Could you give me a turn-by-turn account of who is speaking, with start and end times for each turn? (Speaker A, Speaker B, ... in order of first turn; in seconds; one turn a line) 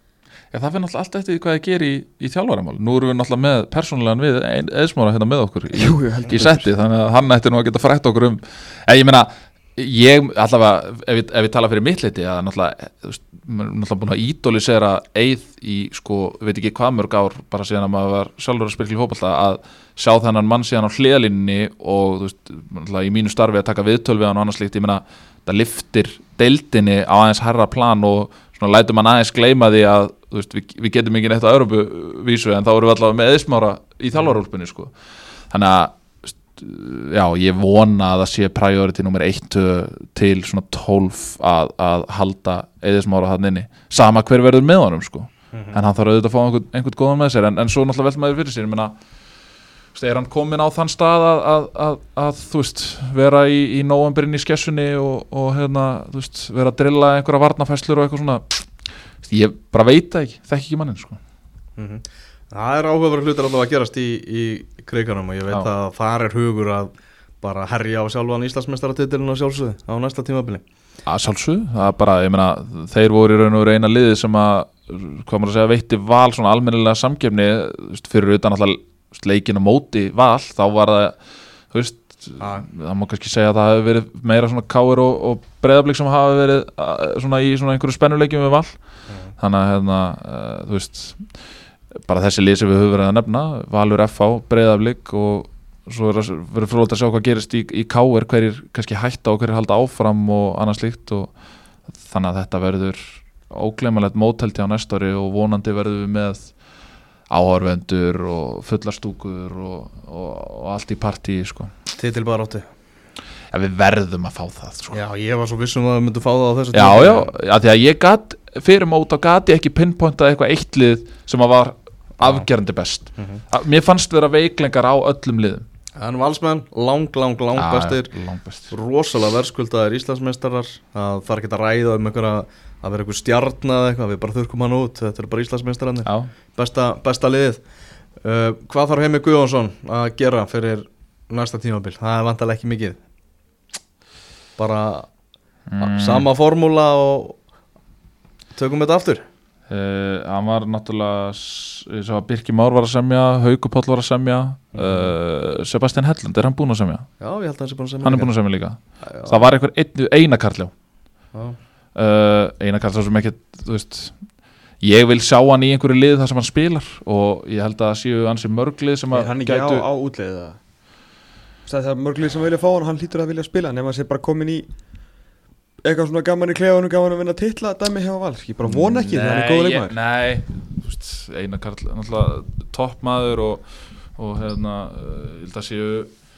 Speaker A: 0.5-34.9
Speaker B: 5.7-6.7
Speaker A: 35.5-49.0
Speaker C: 45.5-45.8
Speaker A: 49.9-58.7
Speaker A: 59.2-61.2
Speaker C: 61.8-70.6
Speaker A: 71.1-81.2
Speaker A: 81.7-88.8
Speaker C: 82.4-82.7
Speaker A: 89.4-91.3
Speaker A: 92.1-101.3
Speaker A: 102.0-106.6
Speaker A: 107.3-111.7
Speaker C: 112.0-112.7
Speaker A: 113.5-115.0
Speaker C: 114.9-117.3
Speaker A: 116.7-125.7
Speaker C: 123.2-123.4
Speaker C: 126.0-128.2
Speaker A: 127.5-128.7
Speaker C: 128.7-137.6
Speaker A: 136.1-136.3
Speaker C: 138.2-143.0
Speaker C: 144.6-145.1
Speaker A: 145.7-146.3
Speaker C: 145.8-147.4
Speaker C: 148.6-149.2
Speaker A: 149.7-157.1
Speaker C: 154.7-155.2
Speaker C: 157.2-158.3
Speaker A: 158.0-160.7
Speaker C: 159.0-159.4
Speaker A: 161.9-164.2
Speaker A: 164.8-169.9
Speaker B: 169.1-170.6
Speaker B: 171.7-174.7
Speaker B: 175.8-180.0
Speaker A: 178.7-186.1